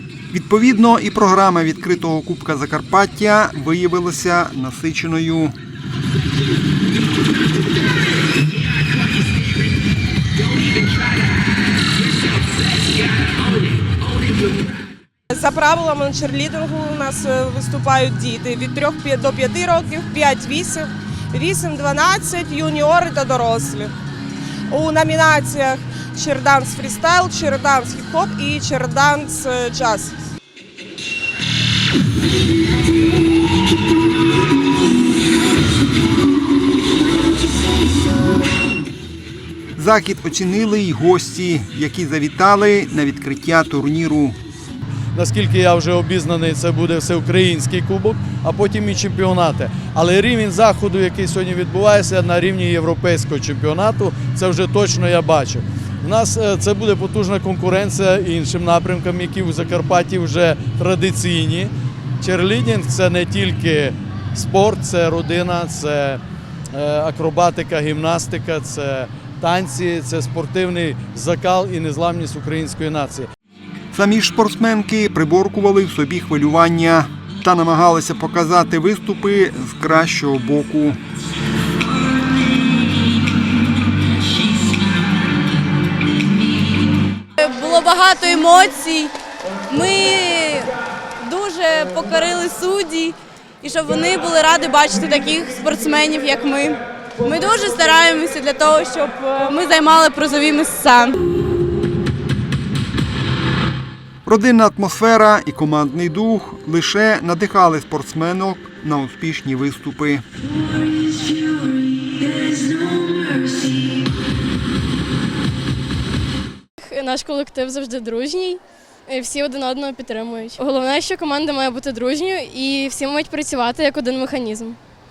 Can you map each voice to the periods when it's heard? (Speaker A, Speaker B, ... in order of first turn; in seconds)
Speaker A: 0.3-5.6, 39.8-44.4, 73.9-81.0, 104.2-110.2
Speaker B: 15.3-23.9, 24.7-30.1
Speaker C: 45.1-66.2, 66.7-73.3
Speaker D: 87.4-89.1, 89.7-101.2
Speaker E: 112.8-113.6, 116.8-124.8